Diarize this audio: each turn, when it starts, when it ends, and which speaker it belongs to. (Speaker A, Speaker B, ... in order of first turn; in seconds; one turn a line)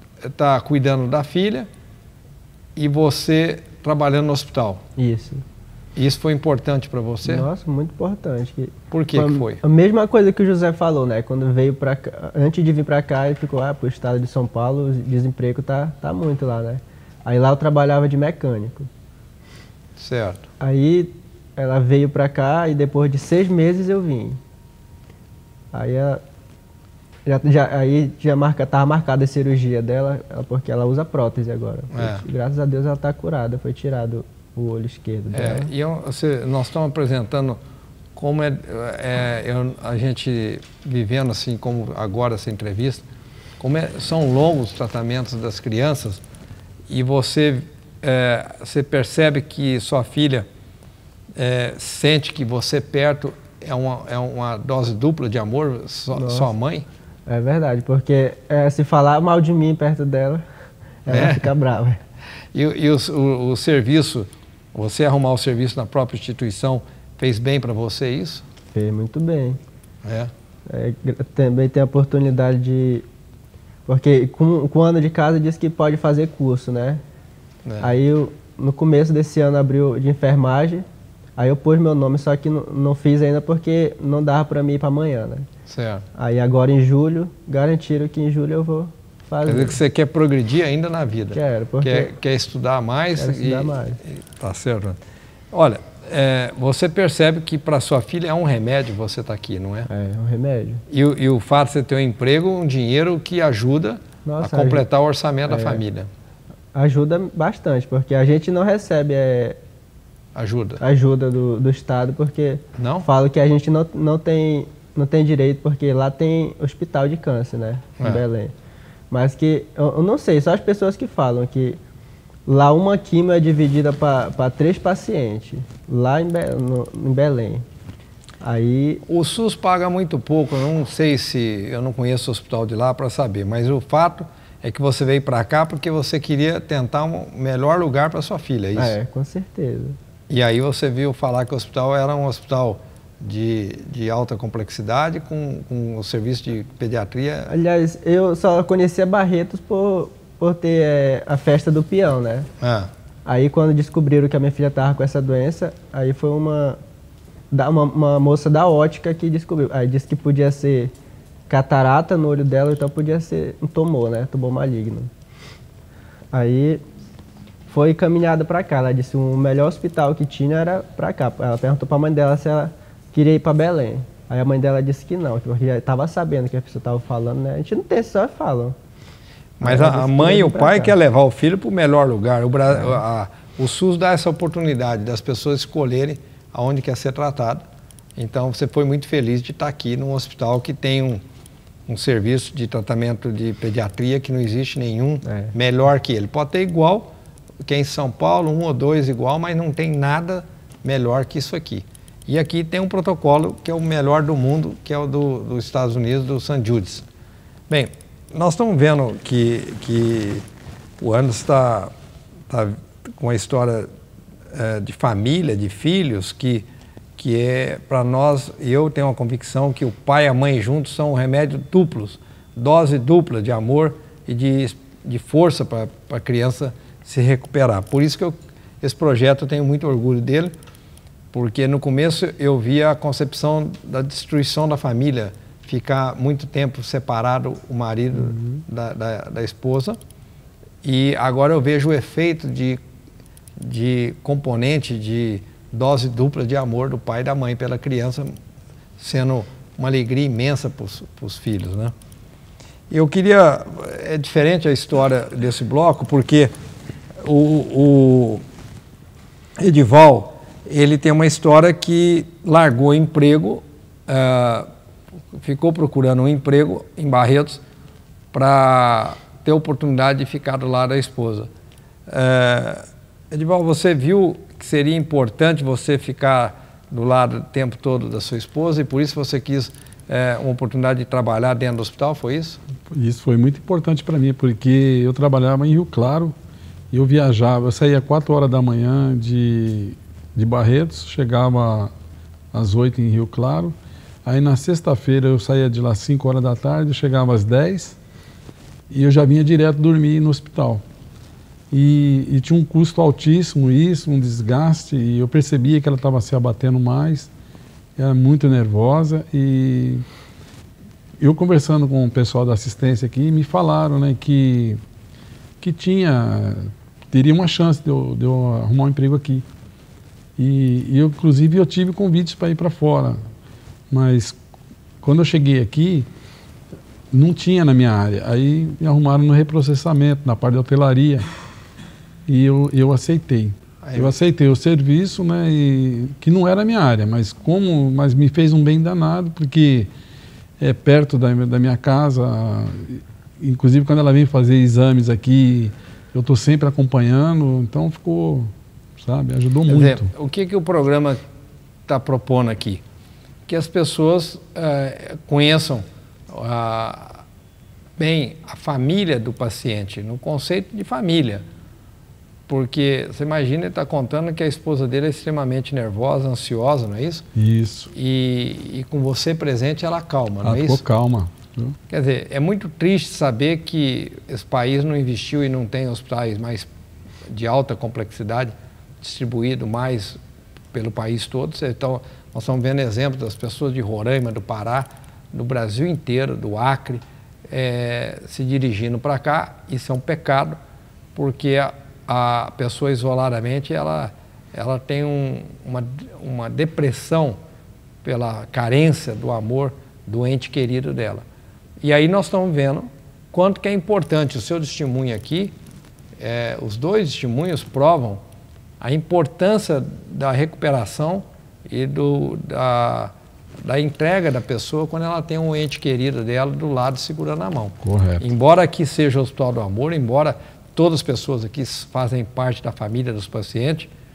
Speaker A: 0.2-1.7
Speaker A: 2.8-4.8
Speaker B: 5.0-5.4
Speaker A: 6.0-7.5
Speaker B: 7.2-18.9
Speaker A: 8.9-9.6
Speaker A: 20.0-20.4
Speaker B: 20.6-24.4
Speaker B: 25.7-26.2
Speaker B: 27.2-35.7
Speaker A: 31.9-32.2
Speaker A: 35.3-37.6
Speaker A: 38.2-43.1
Speaker A: 43.6-46.2
Speaker A: 46.9-50.5
Speaker A: 51.4-56.9
Speaker B: 56.1-56.5
Speaker B: 57.3-60.4
Speaker B: 61.0-62.0
Speaker A: 61.1-61.5
Speaker A: 62.5-68.4
Speaker B: 68.7-69.6
Speaker A: 70.0-70.3
Speaker B: 70.7-73.1
Speaker B: 73.8-77.0
Speaker A: 77.7-77.9
Speaker B: 77.8-85.5
Speaker A: 85.7-86.0
Speaker B: 86.2-89.8
Speaker A: 89.5-95.0
Speaker B: 91.3-92.1
Speaker B: 93.2-94.0
Speaker A: 95.5-99.9
Speaker B: 99.9-100.8
Speaker A: 100.9-106.1
Speaker B: 104.2-104.9
Speaker B: 105.5-105.8
Speaker B: 106.7-109.6
Speaker A: 110.3-110.8
Speaker B: 110.8-118.5
Speaker A: 112.8-113.1
Speaker B: 119.1-121.8
Speaker B: 122.5-127.7
Speaker B: 128.4-129.0
Speaker A: 129.1-138.9
Speaker B: 138.8-140.0
Speaker A: 140.3-147.5
Speaker B: 147.5-152.5
Speaker A: 152.6-152.9
Speaker B: 153.3-156.8
Speaker B: 157.5-160.9
Speaker B: 161.5-165.1
Speaker B: 166.3-166.8
Speaker B: 167.7-178.8
Speaker A: 179.6-187.6
Speaker B: 179.6-181.0
Speaker A: 188.2-191.2
Speaker A: 191.9-197.1
Speaker B: 195.2-195.5
Speaker A: 197.7-207.0
Speaker A: 207.7-210.4
Speaker A: 211.0-211.9
Speaker A: 212.5-213.9
Speaker A: 214.5-230.5
Speaker A: 231.3-240.0
Speaker A: 240.8-242.8
Speaker A: 243.6-248.3
Speaker A: 249.0-251.9
Speaker A: 252.9-256.5
Speaker A: 257.2-258.4
Speaker A: 259.6-264.7
Speaker A: 265.4-267.6
Speaker A: 268.3-271.5
Speaker A: 272.1-282.6
Speaker C: 282.9-286.3
Speaker C: 286.9-291.9
Speaker C: 292.5-298.0
Speaker C: 298.9-300.8
Speaker C: 301.7-307.3
Speaker C: 308.0-310.0
Speaker C: 311.2-314.8
Speaker C: 315.6-319.5
Speaker C: 320.4-323.2
Speaker C: 323.9-324.4
Speaker C: 325.0-326.1
Speaker C: 327.1-331.3
Speaker C: 332.3-339.9
Speaker A: 333.8-334.2
Speaker C: 340.6-350.1
Speaker A: 349.7-351.2
Speaker A: 351.9-352.8
Speaker A: 353.5-357.2
Speaker A: 358.0-361.4
Speaker A: 362.5-367.2
Speaker C: 367.4-367.9
Speaker A: 367.9-370.8
Speaker C: 370.4-371.7
Speaker A: 371.9-376.7
Speaker A: 377.3-380.2
Speaker A: 380.7-390.6
Speaker A: 391.2-397.4
Speaker A: 398.1-401.2
Speaker A: 401.8-405.5
Speaker A: 406.2-408.2
Speaker A: 408.8-413.1
Speaker A: 413.6-423.9
Speaker C: 417.8-418.2